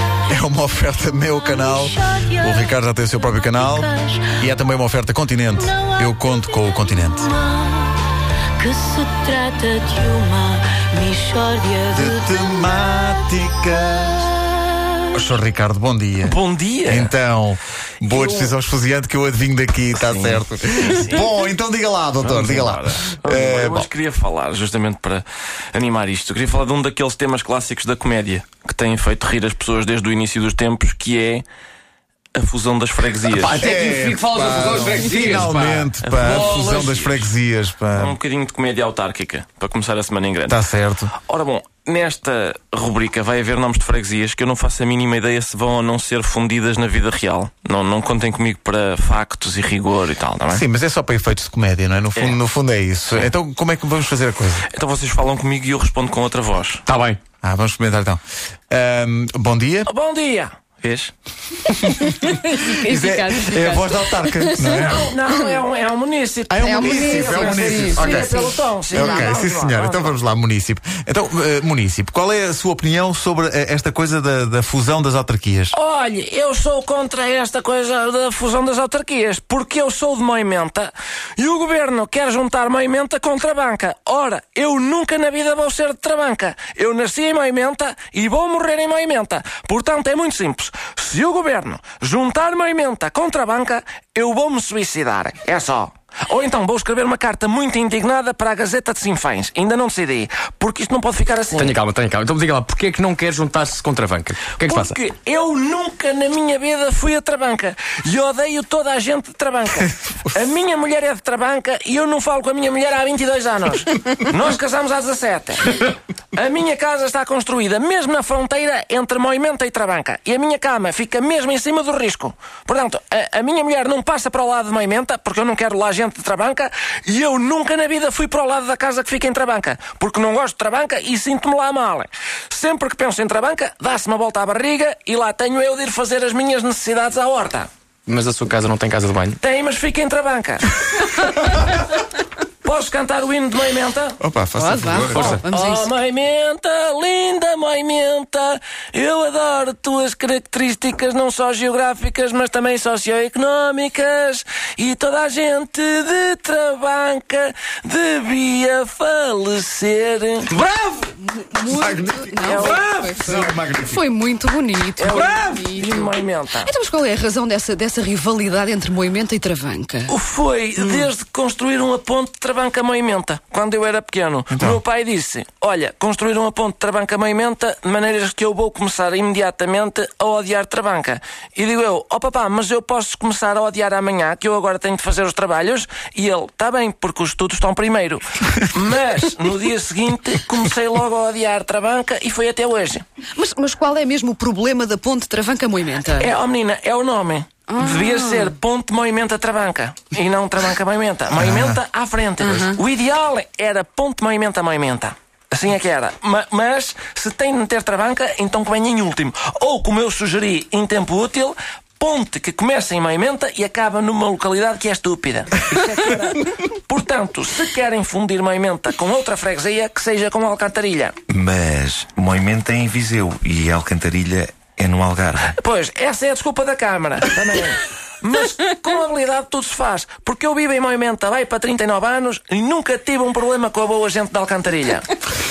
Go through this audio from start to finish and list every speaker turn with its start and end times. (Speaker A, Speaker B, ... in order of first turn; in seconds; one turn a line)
Speaker A: 0.3-7.3
Speaker B: 1.4-2.7
Speaker B: 3.6-4.3
Speaker B: 5.6-8.0
Speaker B: 8.6-13.0
Speaker A: 11.9-14.3
Speaker A: 15.1-23.9
Speaker C: 16.2-17.1
Speaker C: 18.1-18.5
Speaker C: 19.9-21.3
Speaker C: 22.2-31.4
Speaker C: 32.3-33.6
Speaker D: 33.3-36.6
Speaker A: 33.5-38.2
Speaker C: 36.0-37.3
Speaker C: 37.9-40.6
Speaker A: 40.5-41.1
Speaker C: 41.2-50.6
Speaker A: 50.5-54.7
Speaker C: 54.7-56.8
Speaker D: 56.9-57.2
Speaker A: 57.4-59.9
Speaker C: 59.9-61.1
Speaker A: 61.7-65.1
Speaker E: 62.0-64.9
Speaker C: 64.7-70.2
Speaker A: 66.5-75.8
Speaker E: 66.6-69.3
Speaker C: 75.7-101.7
Speaker D: 101.5-105.0
Speaker C: 104.6-137.7
Speaker D: 138.1-139.4
Speaker C: 139.4-141.9
Speaker C: 142.6-144.2
Speaker A: 144.2-145.4
Speaker E: 144.5-145.9
Speaker D: 145.1-145.4
Speaker C: 145.5-160.6
Speaker E: 161.1-170.1
Speaker A: 161.7-164.0
Speaker C: 162.4-163.1
Speaker C: 164.9-166.7
Speaker C: 170.1-193.0
Speaker E: 170.8-171.0
Speaker A: 174.5-174.8
Speaker E: 193.3-196.3
Speaker C: 196.1-221.1
Speaker E: 197.7-198.5
Speaker A: 201.3-201.8
Speaker E: 202.4-202.8
Speaker F: 221.3-225.5
Speaker C: 225.5-235.1